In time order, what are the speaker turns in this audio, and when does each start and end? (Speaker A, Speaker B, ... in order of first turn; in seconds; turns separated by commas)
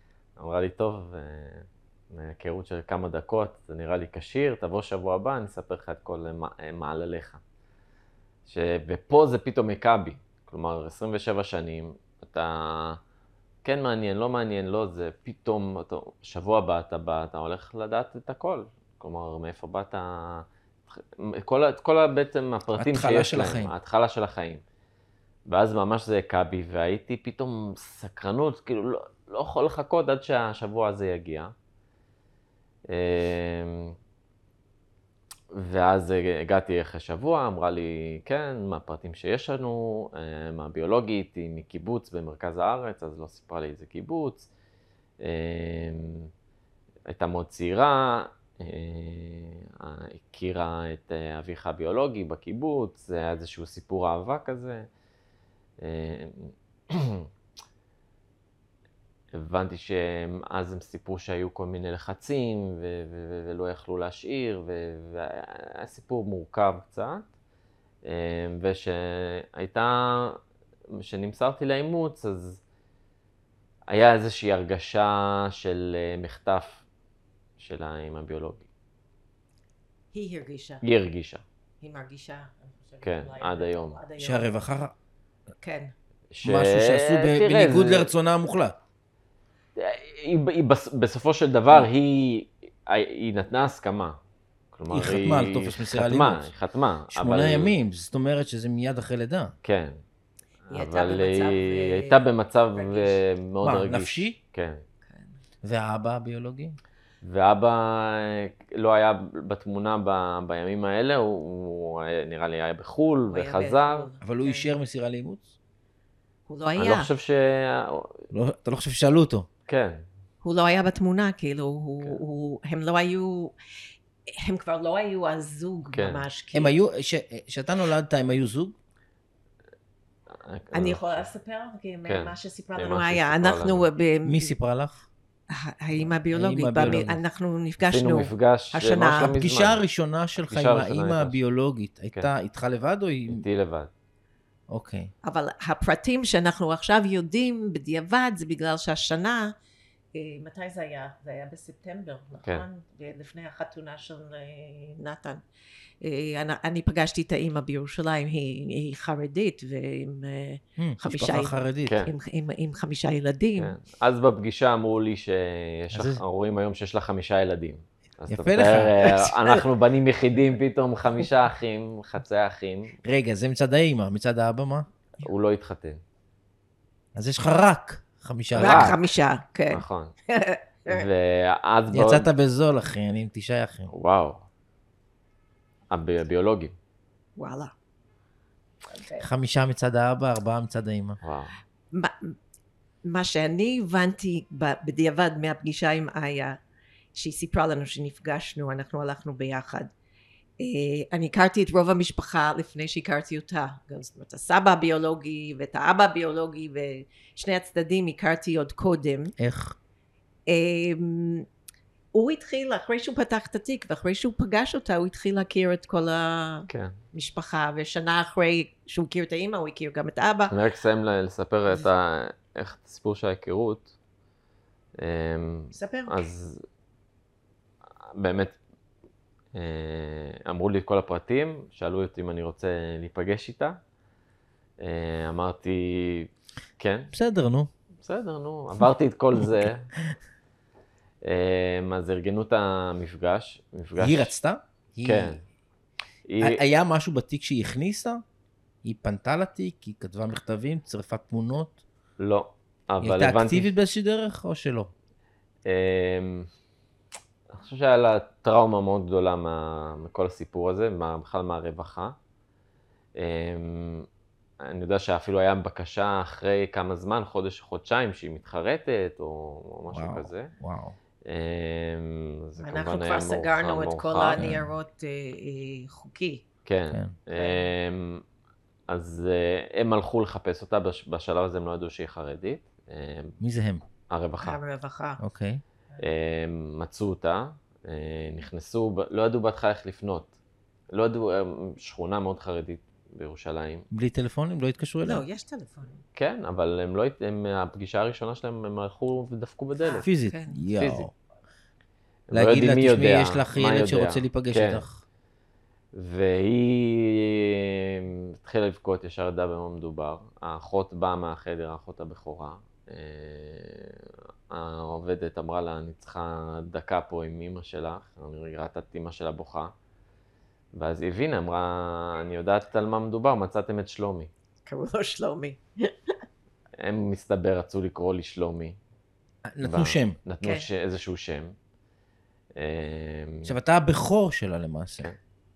Speaker A: 0.4-7.4, Speaker A: 8.5-13.0, Speaker A: 13.6-24.6, Speaker B: 22.8-23.7, Speaker A: 25.5-31.5, Speaker A: 32.9-34.0, Speaker A: 35.5-44.5, Speaker A: 45.2-46.3, Speaker A: 47.1-54.9, Speaker A: 55.8-57.3, Speaker A: 59.3-67.3, Speaker A: 68.0-70.4, Speaker A: 70.9-72.6, Speaker A: 73.9-76.8, Speaker A: 77.6-78.7, Speaker C: 80.1-80.8, Speaker A: 80.8-81.4, Speaker C: 81.8-84.5, Speaker A: 83.0-84.0, Speaker B: 84.2-84.9, Speaker C: 85.6-85.9, Speaker A: 86.3-88.1, Speaker B: 86.4-88.8, Speaker A: 89.8-94.2, Speaker A: 94.7-97.7, Speaker B: 94.9-96.5, Speaker B: 97.1-99.5, Speaker A: 99.6-100.0, Speaker A: 100.7-104.8, Speaker C: 100.7-103.2, Speaker B: 103.6-104.4, Speaker C: 105.1-105.4, Speaker B: 105.6-106.8, Speaker A: 107.2-114.1, Speaker C: 113.3-114.7, Speaker B: 114.2-115.5, Speaker C: 116.5-117.1, Speaker A: 116.8-118.3, Speaker B: 118.3-119.5, Speaker A: 119.7-120.0, Speaker C: 120.4-123.5, Speaker C: 124.4-126.7, Speaker A: 125.9-126.2, Speaker B: 126.5-128.8, Speaker A: 130.3-131.3, Speaker C: 130.7-134.6, Speaker A: 132.1-133.9, Speaker B: 134.2-135.1, Speaker C: 135.5-139.3, Speaker B: 136.0-137.2, Speaker A: 137.8-139.8, Speaker B: 139.2-143.4, Speaker A: 140.5-141.4, Speaker A: 143.3-143.9, Speaker B: 144.7-145.1, Speaker C: 145.2-149.5, Speaker C: 150.1-155.4, Speaker C: 156.0-161.5, Speaker B: 160.8-162.1, Speaker A: 161.9-162.1, Speaker C: 162.1-163.8, Speaker A: 163.6-173.0, Speaker B: 165.9-166.2, Speaker B: 168.3-169.0, Speaker C: 169.0-169.6, Speaker B: 173.1-174.9, Speaker A: 175.2-176.0, Speaker B: 177.1-179.0, Speaker A: 178.6-179.0, Speaker C: 178.6-181.1, Speaker A: 179.7-180.1, Speaker A: 180.9-182.3, Speaker B: 181.9-183.9, Speaker A: 183.9-184.4, Speaker A: 185.9-186.8, Speaker C: 187.4-187.7, Speaker C: 188.9-189.3, Speaker B: 189.2-191.2, Speaker A: 191.2-191.6, Speaker C: 191.9-192.3, Speaker C: 193.1-196.6, Speaker C: 197.1-199.9, Speaker C: 200.6-209.3, Speaker B: 209.4-209.8, Speaker C: 210.5-211.5, Speaker C: 212.1-220.5, Speaker A: 216.7-217.0, Speaker A: 220.5-223.9, Speaker A: 225.0-226.6, Speaker C: 225.7-226.3, Speaker A: 228.1-228.6, Speaker A: 229.5-233.8, Speaker A: 234.8-237.1, Speaker B: 237.1-237.7, Speaker A: 238.0-239.9, Speaker A: 241.2-244.3, Speaker B: 244.0-245.4, Speaker A: 245.0-245.4, Speaker A: 246.3-246.6, Speaker B: 246.4-248.2, Speaker B: 248.8-251.8, Speaker A: 252.2-253.7, Speaker B: 253.0-254.9, Speaker A: 255.7-256.5, Speaker A: 257.5-262.1, Speaker A: 263.1-264.1, Speaker A: 264.6-270.5, Speaker B: 269.9-271.0, Speaker A: 271.3-274.5, Speaker C: 272.6-276.4, Speaker B: 274.4-274.7, Speaker A: 276.6-278.2, Speaker C: 277.3-277.7, Speaker A: 278.9-283.4, Speaker B: 283.4-283.8, Speaker A: 284.1-284.6, Speaker C: 284.4-285.2, Speaker B: 285.2-285.6, Speaker A: 286.0-290.3, Speaker A: 290.9-293.9, Speaker B: 293.9-295.2, Speaker C: 295.0-296.0, Speaker A: 296.1-300.1, Speaker C: 299.8-300.6, Speaker B: 300.0-301.1, Speaker A: 300.7-301.1, Speaker A: 302.3-304.9, Speaker B: 302.3-305.0, Speaker A: 305.9-319.7, Speaker A: 320.8-324.3, Speaker C: 324.6-326.1, Speaker A: 326.8-328.8, Speaker B: 329.5-330.2, Speaker A: 329.6-331.6, Speaker A: 332.6-333.6, Speaker B: 333.4-335.1